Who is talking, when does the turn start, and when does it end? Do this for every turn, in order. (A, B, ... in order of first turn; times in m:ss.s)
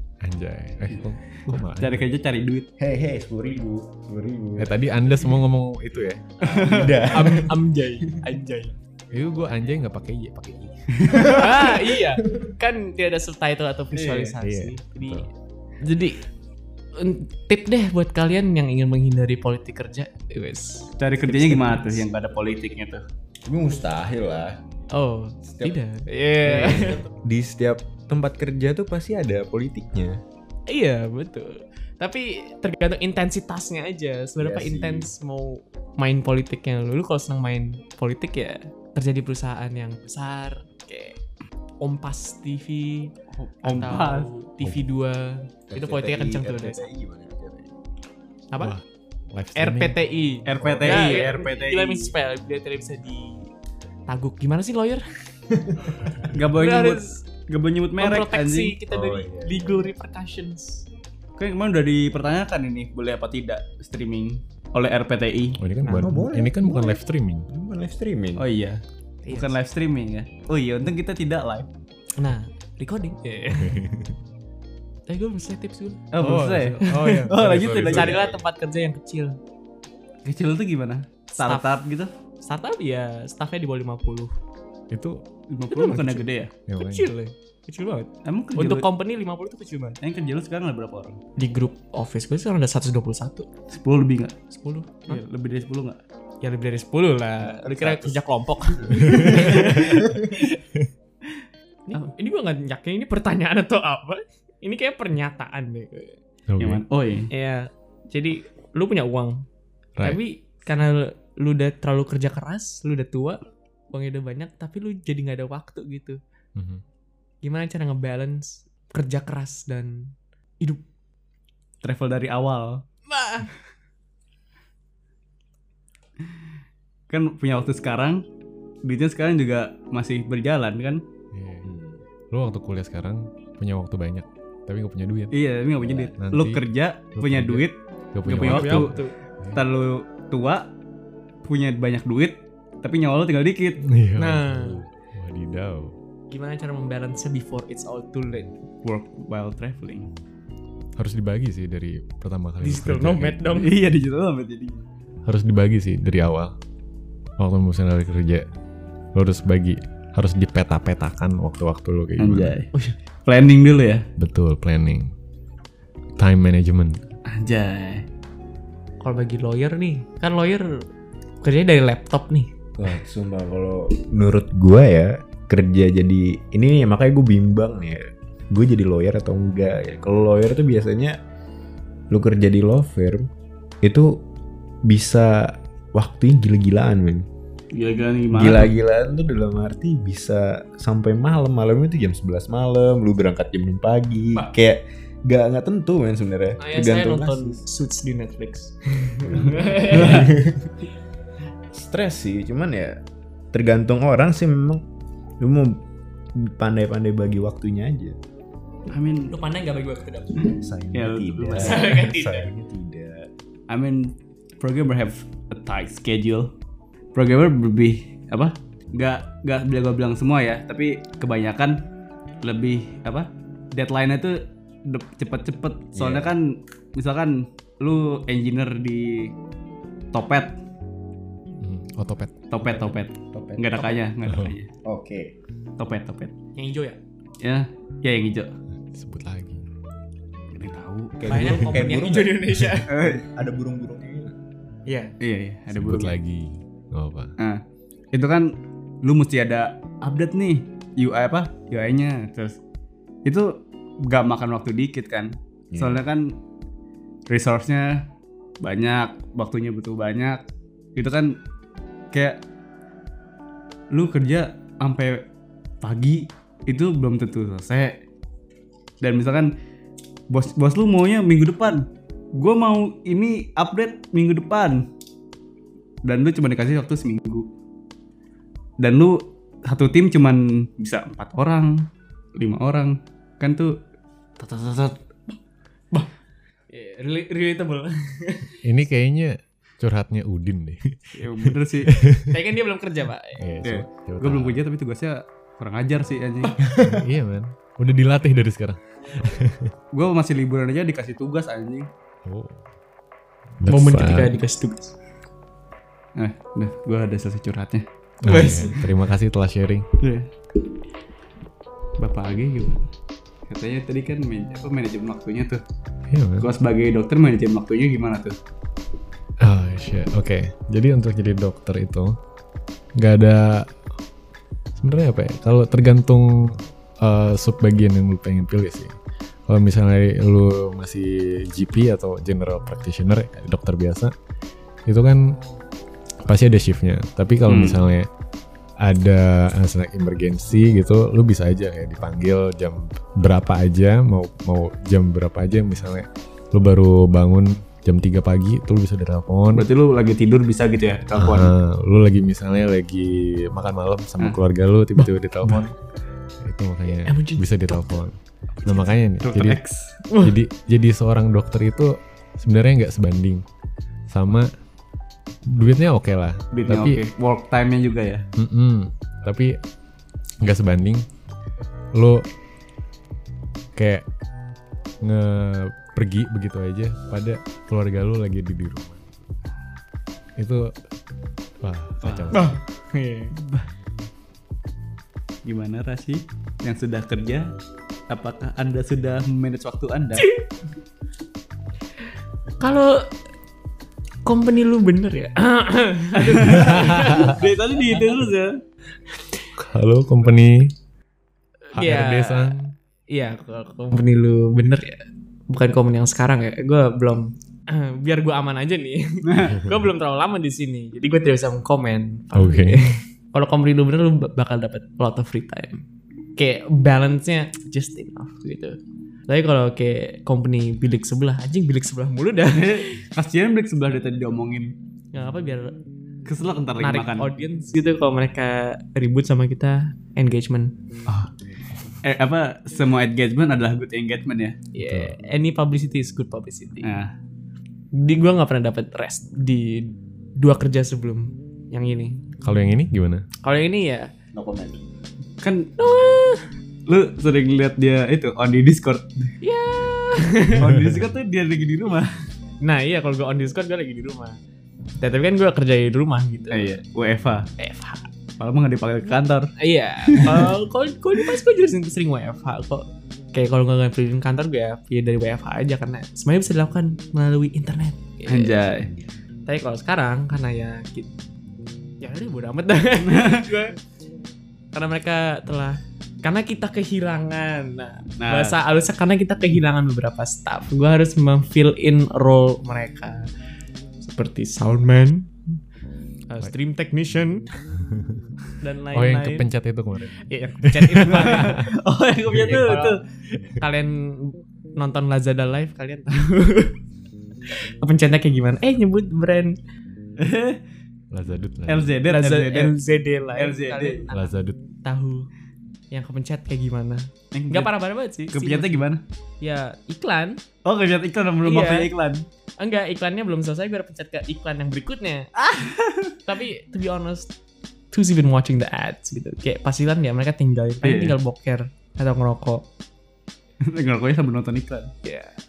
0:00.2-0:02.0 A
0:01.5-0:02.7 B
0:02.8-0:04.9 C
0:04.6-0:06.3 A
0:06.4-0:07.1 B
0:06.4-0:07.6 C
0:07.0-0:08.7 D
0:09.1-0:11.2 A
0:11.0-0:11.3 B
0:11.2-0:15.3 D
0:13.9-0:14.3 B
0:14.4-0:15.3 A
0:15.8-0:16.2 D
0:16.9-0:22.0 D
0:21.0-0:23.0 B
0:23.4-0:24.6 C
0:24.9-0:27.0 D
0:25.4-0:25.8 C
0:26.4-0:30.2 C
0:30.7-0:41.2 D
0:34.4-0:35.1 C
0:41.8-0:46.9 D
0:43.3-0:44.3 B
0:45.7-0:47.7 C
0:48.5-0:48.8 D
0:48.6-0:50.0 A
0:49.5-0:53.5 D
0:50.4-0:52.1 B
0:54.1-0:55.0 D
0:55.5-0:56.2 C
0:56.3-0:58.8 B
0:56.5-0:57.2 D
0:58.0-1:00.8 D
0:58.9-0:59.9 C
1:01.4-1:05.6 B
1:05.6-1:07.5 A
1:05.8-1:06.1 D
1:05.9-1:08.4 C
1:08.4-1:11.7 B
1:09.2-1:09.5 D
1:12.2-1:13.8 D
1:13.5-1:14.2 A
1:15.1-1:16.1 D
1:16.1-1:18.4 B
1:16.2-1:18.2 A
1:16.8-1:19.4 D
1:20.2-1:22.1 B
1:21.3-1:21.7 D
1:22.4-1:24.3 D
1:24.9-1:25.2 A
1:25.5-1:26.5 B
1:25.7-1:30.0 D
1:26.6-1:27.1 A
1:28.2-1:28.9 B
1:30.0-1:31.2 B
1:31.4-1:33.5 D
1:33.7-1:34.4 B
1:34.5-1:35.2 D
1:35.0-1:36.0 B
1:36.4-1:40.4 D
1:37.8-1:38.1 C
1:39.0-1:40.0 A
1:39.1-1:39.9 B
1:41.9-1:46.2 D
1:46.5-1:46.8 A
1:46.6-1:47.3 B
1:47.3-1:49.4 D
1:50.0-1:53.4 D
1:53.9-1:56.2 D
1:56.6-1:56.8 A
1:57.4-2:00.8 D
2:01.8-2:02.8 B
2:03.1-2:03.5 D
2:07.1-2:08.2 B
2:08.8-2:11.0 B
2:11.3-2:11.7 A
2:11.6-2:12.0 C
2:12.3-2:15.3 A
2:15.3-2:19.0 B
2:15.9-2:16.6 A
2:17.2-2:19.6 A
2:18.4-2:19.1 D
2:19.5-2:20.7 B
2:21.4-2:23.8 B
2:23.8-2:25.9 A
2:24.2-2:24.8 D
2:26.3-2:28.5 D
2:28.8-2:30.1 B
2:31.0-2:33.6 A
2:32.6-2:33.8 D
2:33.6-2:34.8 B
2:35.2-2:36.6 A
2:37.4-2:38.4 A
2:39.1-2:42.6 A
2:42.2-2:42.7 B
2:43.2-2:44.0 B
2:44.2-2:45.1 A
2:46.2-2:47.0 A
2:47.2-2:48.0 B
2:49.0-2:50.9 D
2:51.4-2:52.5 D
2:52.8-3:01.2 C
3:02.1-3:03.3 C
3:03.8-3:04.2 C
3:04.8-3:07.2 C
3:07.7-3:08.7 B
3:08.3-3:17.6 C
3:16.6-3:20.3 D
3:19.3-3:20.7 C
3:19.9-3:20.3 B
3:21.7-3:23.0 C
3:23.5-3:24.8 C
3:25.4-3:25.8 C
3:26.4-3:28.2 C
3:28.9-3:29.3 B
3:29.3-3:30.5 D
3:30.5-3:33.3 C
3:30.9-3:31.9 B
3:31.5-3:32.5 D
3:33.7-3:36.5 B
3:37.1-3:41.8 B
3:42.4-3:49.3 B
3:45.9-3:46.3 C
3:50.1-3:50.6 B
3:51.6-3:52.4 A
3:52.5-3:54.7 B
3:53.3-3:53.8 C
3:54.2-3:54.6 A
3:54.8-3:55.3 C
3:55.8-3:56.3 B
3:56.6-3:57.0 D
3:57.4-3:58.5 B
3:58.9-3:59.6 A
4:00.5-4:01.4 B
4:01.2-4:04.3 C
4:01.3-4:02.9 D
4:01.4-4:01.8 A
4:02.9-4:03.2 B
4:04.8-4:05.1 D
4:05.2-4:06.2 B
4:05.7-4:07.3 A
4:08.1-4:12.6 B
4:13.2-4:13.5 B
4:14.0-4:16.3 B
4:15.7-4:16.0 C
4:17.3-4:18.0 B
4:18.6-4:20.4 B
4:21.0-4:21.4 B
4:22.1-4:22.4 B
4:23.9-4:25.2 B
4:25.8-4:28.0 B
4:29.0-4:29.5 B
4:30.3-4:34.8 B
4:36.0-4:37.5 B
4:38.8-4:43.8 B
4:44.4-4:45.0 B
4:46.7-4:48.6 D
4:48.6-4:52.4 A
4:51.1-4:51.9 B
4:52.3-4:53.4 D
4:53.4-4:54.6 A
4:53.6-4:56.7 B
4:56.8-4:59.7 A
4:59.9-5:01.9 B
5:02.2-5:02.6 A
5:03.6-5:04.4 A
5:03.6-5:04.9 D
5:06.2-5:07.8 B
5:08.2-5:09.9 A
5:08.2-5:08.8 D
5:10.0-5:10.3 B
5:12.0-5:12.9 B
5:13.5-5:15.6 B
5:16.1-5:16.5 A
5:16.4-5:18.4 B
5:19.4-5:22.2 A
5:22.9-5:23.7 A
5:24.8-5:28.9 A
5:29.5-5:34.1 A
5:34.9-5:35.4 A
5:36.2-5:38.1 A
5:37.5-5:37.9 B
5:38.8-5:49.7 A
5:49.5-5:51.5 B
5:51.2-5:55.7 A
5:56.4-5:59.6 A
5:56.9-5:58.0 D
5:58.6-6:00.0 B
6:00.1-6:00.3 D
6:00.2-6:03.4 A
6:04.1-6:04.5 A
6:05.5-6:07.0 A
6:06.5-6:08.2 B
6:08.4-6:09.6 A
6:10.4-6:11.1 A
6:11.9-6:12.3 A
6:13.8-6:14.0 A
6:15.0-6:19.0 A
6:20.4-6:20.7 A
6:21.6-6:22.5 A
6:22.0-6:22.4 B
6:22.3-6:23.4 D
6:23.4-6:23.6 B
6:25.4-6:27.5 B
6:28.1-6:30.2 B
6:30.2-6:30.4 D
6:32.6-6:33.0 D
6:34.2-6:37.4 D
6:36.1-6:38.6 B
6:36.5-6:37.4 A
6:39.6-6:40.7 A
6:41.7-6:55.8 D
6:41.7-6:42.6 A
6:49.2-6:49.6 B
6:52.3-6:52.8 A
6:56.4-6:58.8 D
6:59.3-7:02.9 D
7:02.5-7:04.7 B
7:05.1-7:05.8 D
7:06.2-7:07.3 B
7:06.8-7:10.7 D
7:12.0-7:14.6 B
7:14.7-7:16.9 D
7:14.8-7:15.1 A
7:16.8-7:17.1 B
7:17.9-7:22.2 D
7:22.4-7:23.2 A
7:23.4-7:24.1 D
7:24.3-7:24.8 C
7:25.4-7:25.7 B
7:25.8-7:26.5 D
7:26.9-7:29.3 B
7:29.4-7:30.7 D
7:30.5-7:32.1 B
7:32.6-7:34.4 D
7:35.0-7:36.8 D
7:36.5-7:37.5 B
7:37.6-7:38.1 D
7:38.4-7:39.5 B
7:39.6-7:48.6 D
7:40.0-7:40.5 B
7:48.3-7:48.9 B
7:49.4-7:51.1 D
7:52.0-7:53.8 D
7:53.0-7:53.5 B
7:54.7-8:03.3 D
7:58.2-7:58.5 B
8:04.0-8:05.3 D
8:06.3-8:07.5 D
8:07.9-8:08.2 A
8:08.6-8:09.5 D
8:08.9-8:11.7 A
8:10.2-8:11.7 D
8:11.0-8:13.0 B
8:12.3-8:12.8 A
8:12.4-8:13.0 D
8:13.6-8:16.7 D
8:17.8-8:19.6 D
8:20.2-8:20.6 B
8:21.1-8:22.0 A
8:21.7-8:22.7 B
8:22.1-8:25.3 D
8:23.3-8:24.0 B
8:24.1-8:24.6 A
8:25.9-8:28.8 D
8:27.3-8:27.7 B
8:28.3-8:29.0 B
8:29.4-8:30.4 D
8:30.6-8:32.3 B
8:31.4-8:31.9 D
8:32.6-8:35.3 D
8:35.4-8:36.2 B
8:36.2-8:37.3 D
8:37.9-8:42.6 D
8:40.8-8:41.2 B
8:43.6-8:44.9 B
8:45.0-8:45.4 D